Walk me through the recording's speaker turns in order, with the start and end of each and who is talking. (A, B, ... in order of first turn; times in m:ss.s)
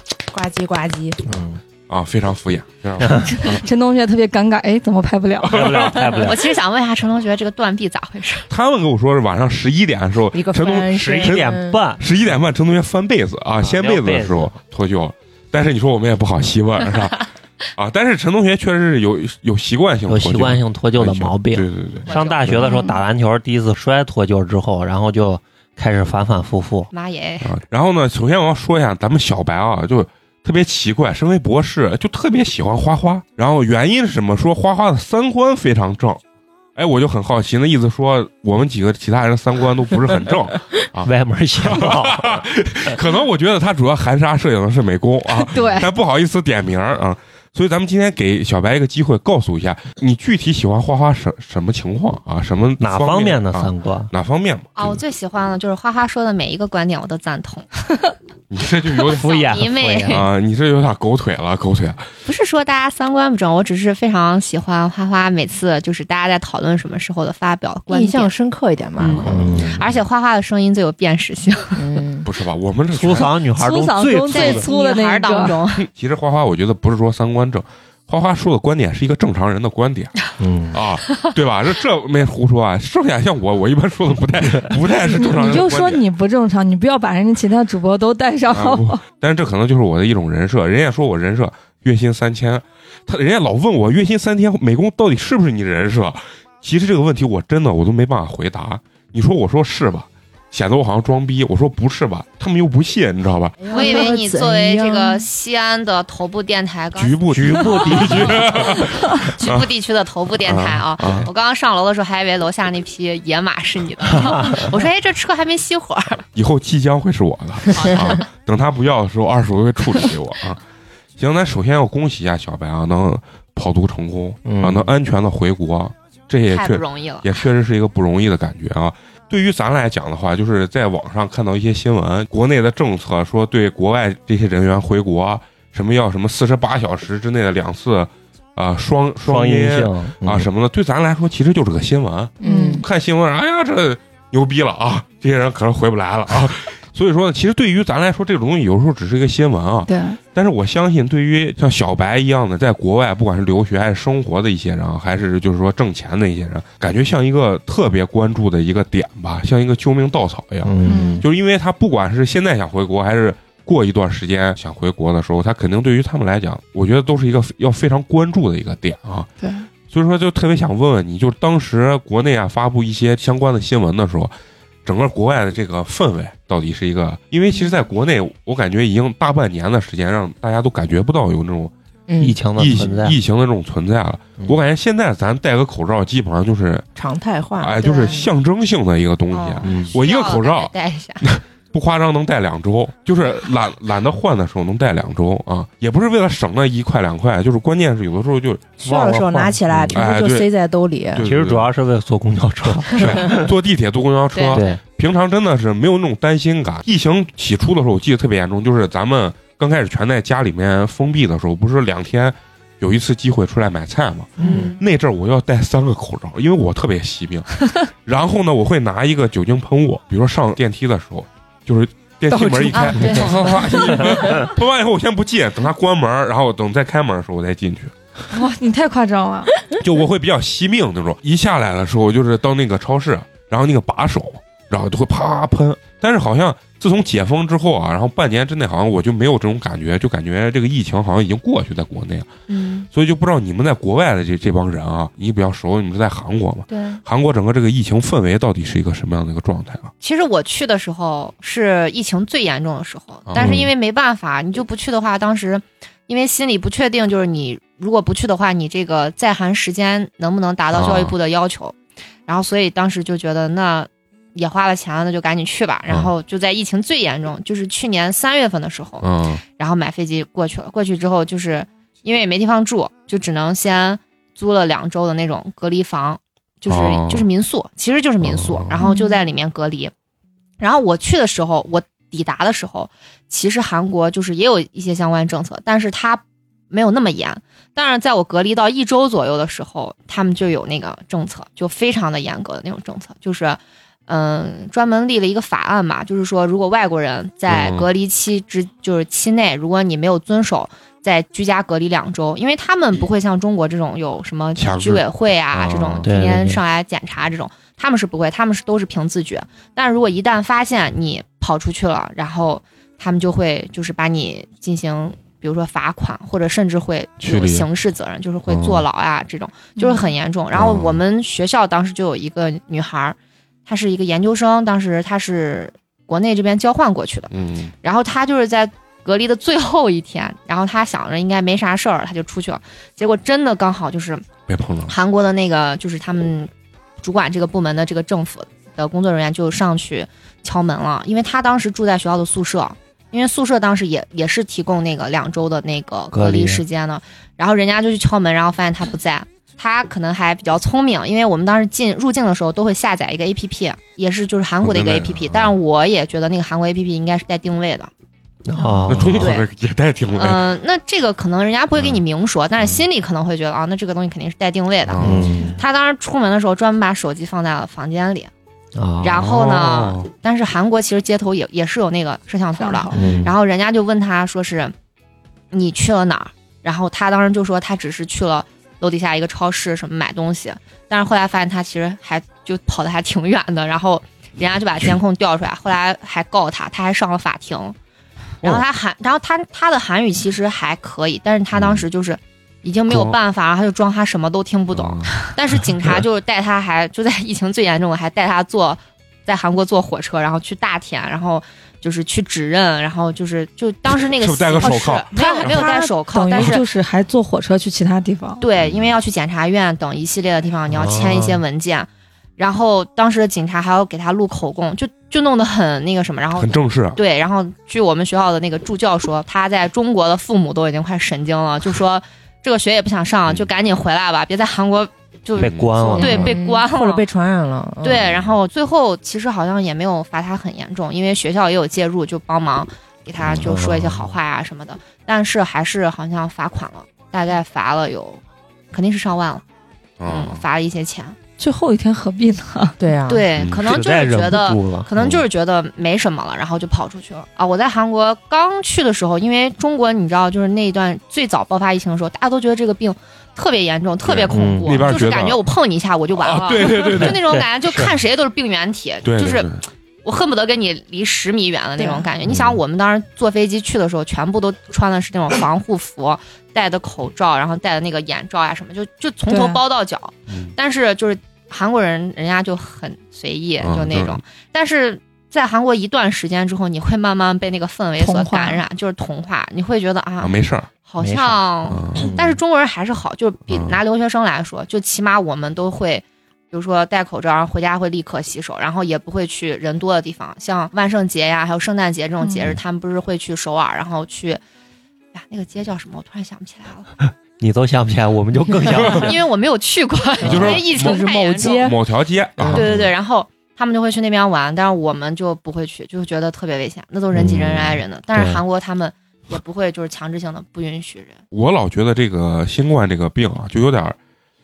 0:00.3-0:01.2 A
0:01.3-0:01.6 B
0:01.9-0:03.6 C
0:03.0-0:03.4 B
0:03.3-0:06.2 D
0:05.4-0:06.2 C
0:05.5-0:06.4 B
0:06.2-0:08.5 E
0:08.5-0:22.7 C
0:10.3-0:11.8 A
0:10.9-0:12.0 B
0:13.6-0:14.5 B
0:20.1-0:26.9 B
0:22.1-0:22.9 E
0:22.7-0:22.9 D
0:26.9-0:27.5 E
0:27.4-0:36.2 C
0:36.8-0:41.1 C
0:41.0-0:42.4 B
0:41.6-0:55.0 C
0:45.4-0:45.9 D
0:52.8-0:54.1 B
0:54.8-0:57.7 E
0:58.5-0:59.5 C
0:59.1-1:00.3 B
0:59.1-1:00.2 E
1:00.1-1:02.0 C
1:02.3-1:08.3 E
1:07.9-1:09.5 A
1:09.0-1:11.8 E
1:09.2-1:09.7 C
1:09.2-1:09.8 B
1:11.8-1:12.3 A
1:12.2-1:13.4 C
1:12.9-1:14.7 B
1:13.5-1:15.6 D
1:14.3-1:15.9 E
1:15.8-1:26.0 C
1:20.4-1:20.8 B
1:25.1-1:29.0 D
1:28.5-1:43.6 C
1:43.6-1:45.2 A
1:43.7-1:47.2 E
1:47.0-1:49.7 C
1:47.3-1:48.8 B
1:47.8-1:48.2 E
1:49.4-1:56.2 E
1:50.5-1:51.3 C
1:54.2-1:54.7 B
1:56.3-2:00.6 C
1:57.7-1:58.2 E
2:01.2-2:49.3 C
2:04.4-2:04.9 B
2:06.5-2:07.3 E
2:19.2-2:20.5 B
2:22.4-2:22.8 A
2:22.4-2:22.9 D
2:29.9-2:30.2 D
2:40.6-2:41.2 B
2:40.8-2:41.2 D
2:49.4-2:49.7 D
2:49.9-2:54.3 C
2:54.8-3:01.7 C
3:02.1-3:02.4 A
3:02.2-3:03.2 B
3:02.6-3:06.9 C
3:07.0-3:08.3 A
3:07.6-3:18.7 C
3:07.8-3:08.2 E
3:09.3-3:11.2 E
3:09.6-3:09.9 B
3:18.8-3:21.3 A
3:18.8-3:20.0 B
3:19.9-3:20.5 C
3:21.1-3:21.7 C
3:21.2-3:23.5 B
3:22.9-3:47.9 C
3:24.3-3:24.7 E
3:24.5-3:24.8 B
3:34.4-3:34.8 E
3:34.4-3:34.7 B
3:42.3-3:44.5 A
3:42.7-3:43.7 E
3:48.3-3:49.7 D
3:49.8-4:02.3 C
4:02.5-4:02.9 E
4:02.9-4:09.9 C
4:06.7-4:07.0 E
4:10.0-4:29.1 E
4:13.3-4:13.6 C
4:13.4-4:13.7 B
4:20.7-4:21.2 C
4:29.0-4:29.4 C
4:29.6-4:39.9 E
4:36.7-4:37.3 C
4:38.2-4:38.8 C
4:38.8-4:39.2 D
4:40.6-5:27.3 E
4:57.5-4:57.9 C
5:04.6-5:05.1 C
5:05.5-5:06.6 B
5:17.2-5:17.7 C
5:18.5-5:18.8 C
5:19.8-5:20.0 D
5:20.5-5:21.0 C
5:27.3-5:27.7 C
5:27.8-5:34.3 E
5:34.5-5:34.9 C
5:34.9-5:36.5 E
5:37.0-5:57.9 E
5:46.1-5:46.6 B
5:54.6-5:55.6 C
5:58.5-5:59.3 B
5:58.9-6:00.4 C
5:59.2-5:59.4 E
6:00.2-6:08.3 E
6:04.9-6:05.3 C
6:05.0-6:05.6 B
6:08.8-6:09.2 B
6:09.0-6:14.7 E
6:09.2-6:10.1 C
6:12.6-6:13.2 D
6:12.9-6:13.3 B
6:15.5-6:27.8 E
6:28.4-6:46.6 E
6:31.6-6:31.8 C
6:32.9-6:33.2 C
6:34.7-6:35.3 C
6:44.1-6:45.7 C
6:44.6-6:48.4 D
6:48.4-7:07.0 E
6:48.6-6:48.9 C
6:50.7-6:51.4 B
6:56.4-6:57.0 C
7:05.4-7:06.2 C
7:05.4-7:06.4 B
7:06.0-7:08.0 A
7:07.8-7:18.2 E
7:07.9-7:08.4 C
7:13.3-7:14.1 B
7:18.7-7:19.4 E
7:20.0-7:20.4 C
7:20.1-7:21.2 E
7:21.4-7:22.8 D
7:22.8-7:23.3 A
7:23.1-7:39.5 E
7:23.4-7:23.7 C
7:23.7-7:25.2 B
7:34.0-7:35.4 C
7:34.3-7:34.9 B
7:36.2-7:37.2 C
7:36.8-7:37.9 B
7:39.0-7:39.6 C
7:40.0-8:14.4 E
7:42.3-7:42.6 B
7:49.3-7:49.6 D
7:53.6-7:54.2 C
7:58.0-7:58.6 D
8:00.2-8:00.7 C
8:01.0-8:01.4 B
8:01.7-8:02.1 C
8:02.0-8:02.4 B
8:03.5-8:03.8 C
8:15.1-8:16.9 E
8:17.4-8:19.2 B
8:18.8-8:19.1 C
8:18.8-8:21.7 E
8:20.2-8:20.6 B
8:20.2-8:22.7 C
8:20.7-8:21.8 A
8:22.5-8:31.2 E
8:22.6-8:22.8 B
8:27.1-8:28.4 B
8:31.3-8:34.0 C